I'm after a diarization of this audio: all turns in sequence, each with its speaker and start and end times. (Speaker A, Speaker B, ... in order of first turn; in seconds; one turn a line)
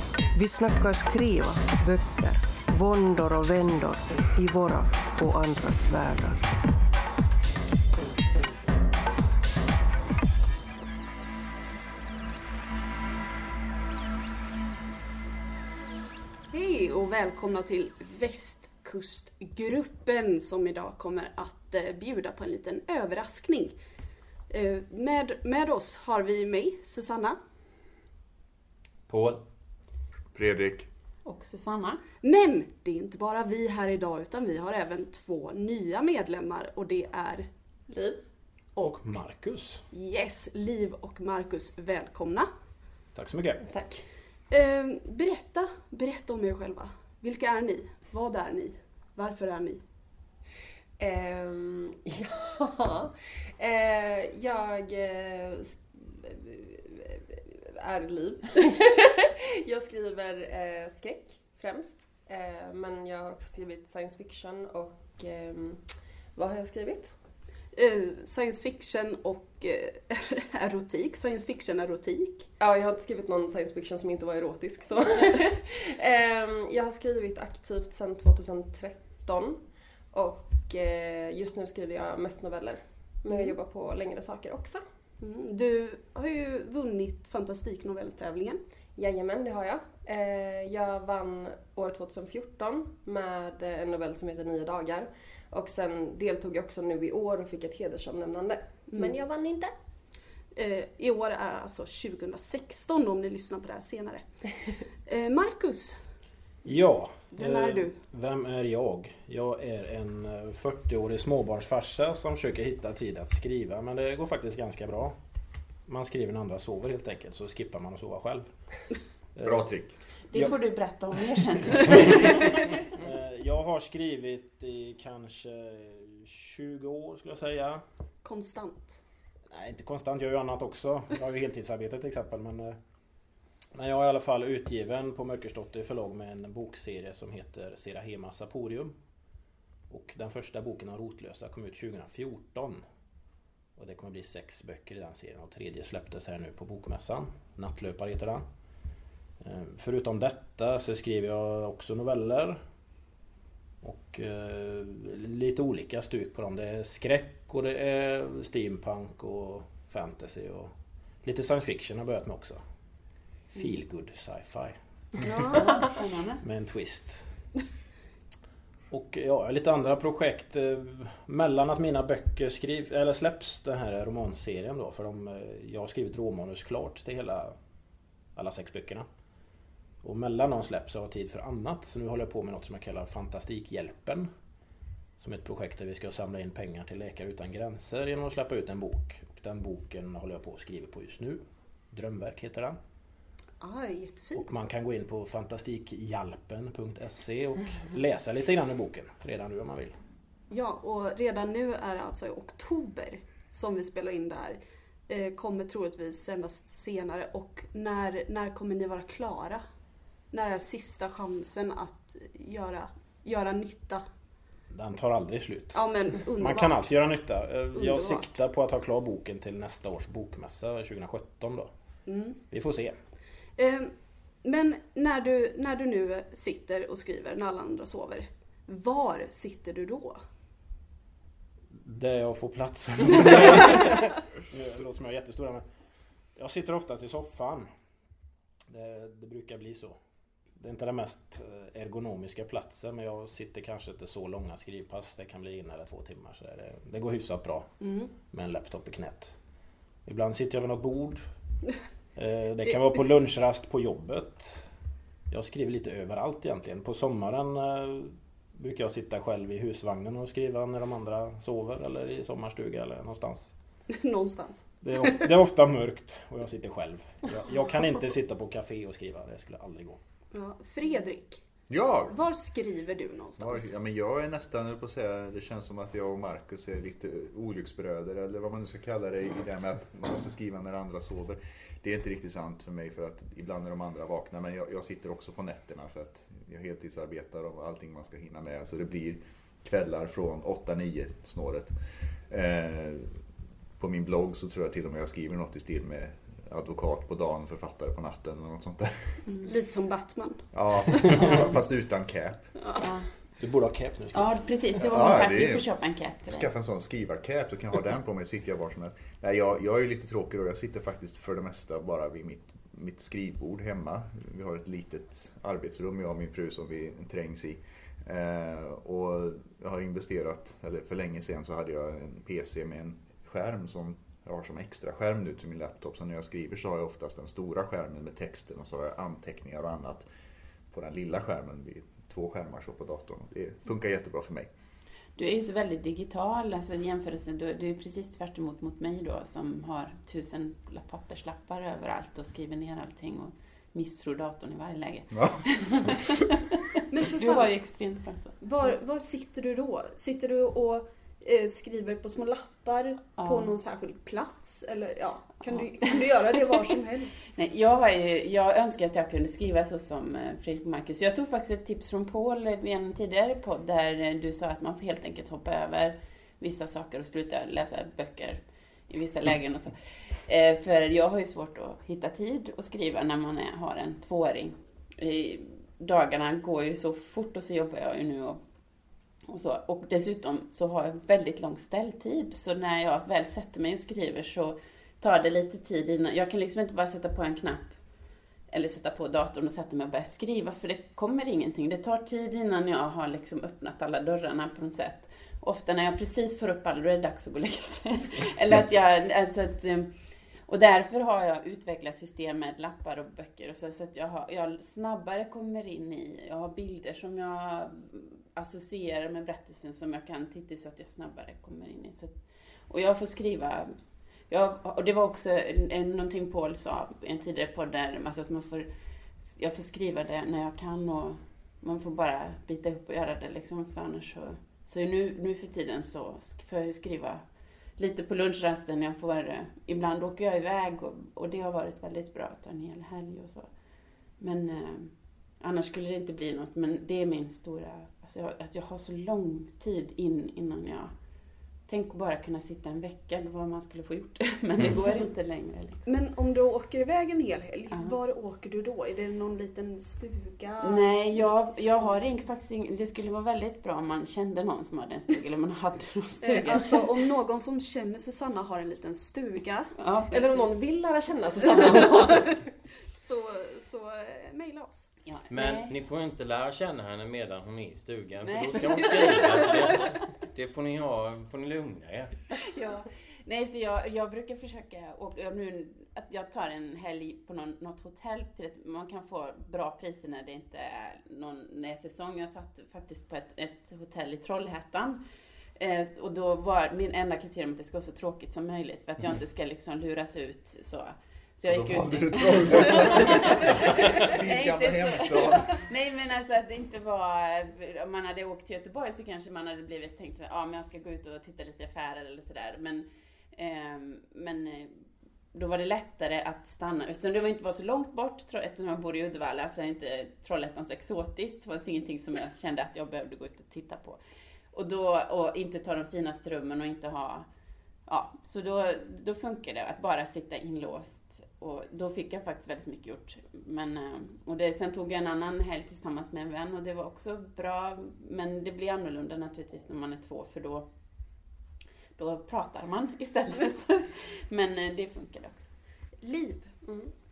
Speaker A: 0.3-6.4
Speaker B: 16.5-23.8
Speaker B: 24.5-27.4
Speaker C: 29.1-29.4
Speaker D: 30.3-30.9
Speaker E: 31.2-32.0
Speaker B: 32.2-37.5
Speaker F: 37.9-38.2
Speaker G: 38.8-39.8
Speaker B: 39.9-42.5
Speaker G: 43.1-43.6
Speaker F: 43.6-44.0
Speaker B: 44.5-49.8
Speaker F: 51.0-67.1
Speaker B: 67.7-72.5
Speaker F: 72.6-79.6
Speaker F: 80.1-84.8
Speaker B: 83.3-83.5
Speaker B: 85.2-88.6
Speaker F: 89.0-99.7
Speaker B: 100.5-104.2
Speaker B: 105.0-106.0
Speaker G: 106.6-115.2
Speaker B: 107.3-108.0
Speaker G: 115.8-118.5
Speaker G: 119.3-119.7
Speaker D: 119.4-120.0
Speaker E: 120.3-122.6
Speaker G: 123.0-127.8
Speaker B: 128.2-129.0
Speaker G: 129.5-132.8
Speaker G: 133.7-138.9
Speaker G: 139.9-142.8
Speaker G: 143.8-148.4
Speaker G: 149.4-152.6
Speaker G: 153.8-160.7
Speaker G: 161.2-162.6
Speaker G: 163.5-164.8
Speaker B: 165.2-165.6
Speaker E: 165.5-166.4
Speaker G: 166.4-167.2
Speaker G: 168.9-177.6
Speaker G: 178.3-179.1
Speaker G: 180.0-184.3
Speaker G: 185.2-192.8
Speaker B: 193.6-194.5
Speaker G: 194.3-199.9
Speaker B: 200.5-209.6
Speaker B: 210.3-214.0
Speaker G: 214.7-221.7
Speaker B: 215.7-216.9
Speaker B: 217.7-218.4
Speaker B: 222.1-222.4
Speaker G: 222.4-222.9
Speaker B: 223.6-230.2
Speaker G: 231.7-235.6
Speaker G: 236.3-237.7
Speaker G: 238.7-240.0
Speaker G: 240.6-249.3
Speaker B: 247.8-248.1
Speaker G: 250.0-251.2
Speaker G: 252.2-254.7
Speaker G: 255.3-263.5
Speaker B: 263.9-265.3
Speaker G: 264.8-270.0
Speaker B: 270.3-271.4
Speaker D: 271.7-272.2
Speaker B: 272.1-273.7
Speaker D: 273.4-293.2
Speaker D: 293.8-299.3
Speaker B: 299.4-301.2
Speaker D: 300.5-302.5
Speaker B: 302.6-302.9
Speaker E: 302.8-303.1
Speaker G: 303.4-304.4
Speaker E: 304.1-306.5
Speaker D: 304.8-330.1
Speaker D: 330.7-334.5
Speaker E: 335.1-346.4
Speaker D: 345.1-345.4
Speaker B: 346.9-347.6
Speaker E: 347.0-348.4
Speaker B: 348.4-357.3
Speaker E: 353.2-353.5
Speaker E: 355.4-356.1
Speaker E: 357.3-378.4
Speaker E: 379.3-387.9
Speaker E: 388.5-399.9
Speaker E: 400.4-413.7
Speaker E: 414.3-418.7
Speaker E: 419.2-427.2
Speaker E: 427.7-440.9
Speaker E: 441.6-445.8
Speaker B: 445.8-452.0
Speaker E: 450.6-456.9
Speaker B: 456.2-460.5
Speaker E: 459.8-460.1
Speaker F: 460.1-462.4
Speaker B: 461.5-462.3
Speaker B: 462.9-464.9
Speaker E: 465.0-465.7
Speaker C: 465.3-472.2
Speaker E: 468.2-469.9
Speaker E: 472.5-485.0
Speaker E: 485.6-514.0
Speaker D: 491.4-495.6
Speaker E: 514.5-517.2
Speaker E: 517.9-530.7
Speaker E: 532.0-535.5
Speaker B: 536.0-536.5
Speaker F: 536.6-536.9